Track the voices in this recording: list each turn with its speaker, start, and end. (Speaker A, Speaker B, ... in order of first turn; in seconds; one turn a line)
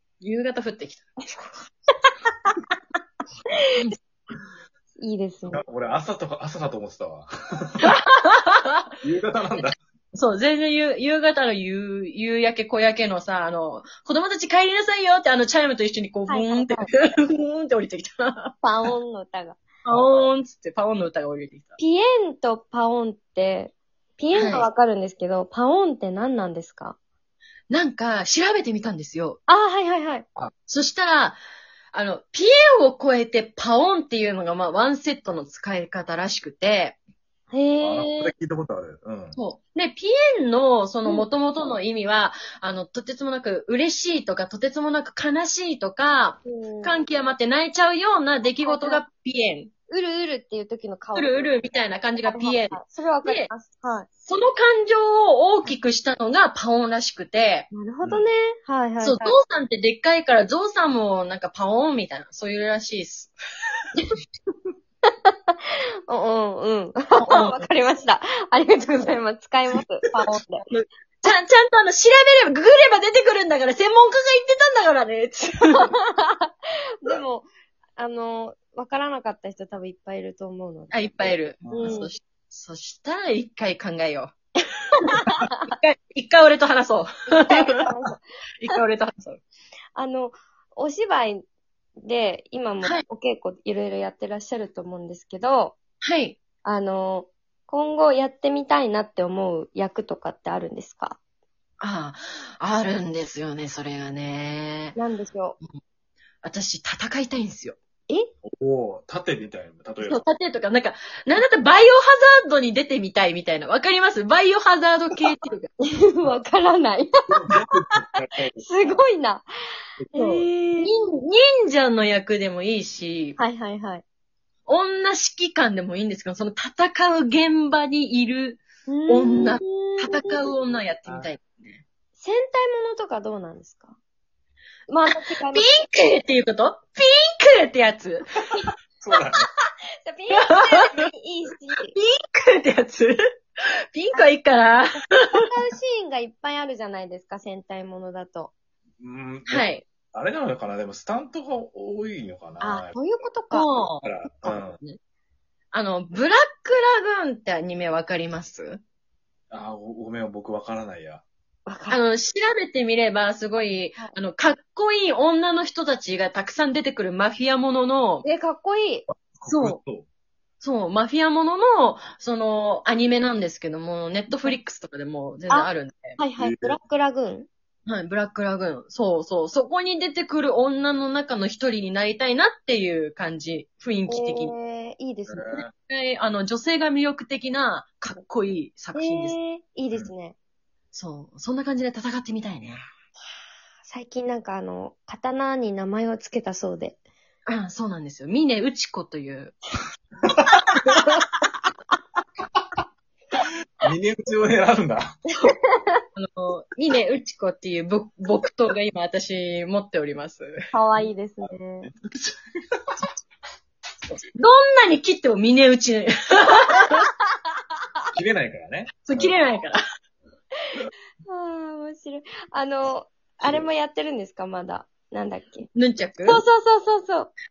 Speaker A: 0.2-1.5
Speaker B: 5.0-5.7
Speaker C: 5.5-7.9
Speaker A: 7.8-8.9
Speaker C: 9.0-9.8
Speaker A: 10.1-18.5
Speaker B: 16.3-16.9
Speaker B: 18.6-19.6
Speaker A: 19.9-21.8
Speaker C: 19.9-20.2
Speaker B: 21.8-27.0
Speaker A: 24.3-24.7
Speaker A: 27.7-29.4
Speaker B: 29.5-30.3
Speaker A: 30.7-31.4
Speaker A: 31.9-37.0
Speaker B: 37.5-38.3
Speaker C: 37.8-39.4
Speaker A: 39.4-49.7
Speaker B: 46.5-47.0
Speaker B: 48.6-49.0
Speaker B: 49.9-51.6
Speaker A: 51.1-53.5
Speaker B: 52.2-54.1
Speaker A: 54.2-57.7
Speaker B: 57.7-59.4
Speaker A: 59.0-63.3
Speaker B: 65.2-65.5
Speaker B: 66.1-70.6
Speaker A: 67.2-67.7
Speaker A: 70.7-75.9
Speaker B: 75.8-82.1
Speaker A: 80.9-84.3
Speaker C: 81.6-82.0
Speaker A: 85.0-87.7
Speaker B: 85.3-85.6
Speaker B: 87.3-88.2
Speaker A: 88.6-89.4
Speaker B: 90.0-91.5
Speaker B: 92.0-95.8
Speaker A: 96.0-96.4
Speaker B: 96.6-101.2
Speaker A: 101.8-105.0
Speaker B: 105.0-105.6
Speaker A: 106.4-107.8
Speaker C: 108.4-110.2
Speaker A: 110.0-115.7
Speaker B: 115.8-117.3
Speaker C: 117.3-118.7
Speaker B: 118.6-119.5
Speaker C: 120.0-120.5
Speaker B: 120.1-120.9
Speaker A: 120.8-123.4
Speaker B: 123.4-124.0
Speaker A: 124.7-131.8
Speaker B: 128.9-130.5
Speaker B: 132.2-134.0
Speaker B: 134.9-135.7
Speaker A: 135.3-138.6
Speaker C: 139.0-139.4
Speaker B: 140.0-142.0
Speaker A: 140.4-140.8
Speaker A: 141.9-143.2
Speaker A: 143.9-145.3
Speaker B: 145.3-148.5
Speaker C: 149.0-153.0
Speaker A: 149.5-149.8
Speaker B: 152.6-153.7
Speaker A: 153.5-155.0
Speaker C: 154.0-154.8
Speaker A: 155.7-158.8
Speaker C: 159.5-161.2
Speaker B: 161.7-162.0
Speaker A: 161.9-168.2
Speaker B: 168.2-169.1
Speaker C: 169.1-170.1
Speaker A: 169.5-169.8
Speaker A: 170.6-176.2
Speaker B: 175.5-177.5
Speaker C: 176.4-176.8
Speaker A: 177.9-184.5
Speaker B: 184.1-185.6
Speaker C: 185.3-185.7
Speaker A: 185.9-189.4
Speaker B: 188.9-190.4
Speaker A: 190.9-192.8
Speaker B: 193.8-197.0
Speaker A: 197.5-199.6
Speaker C: 203.8-205.0
Speaker B: 205.4-206.0
Speaker A: 206.2-210.6
Speaker B: 210.7-211.9
Speaker C: 211.4-212.8
Speaker A: 214.3-217.1
Speaker C: 218.1-219.4
Speaker A: 219.1-219.8
Speaker B: 221.3-225.7
Speaker A: 225.8-226.4
Speaker B: 226.2-227.3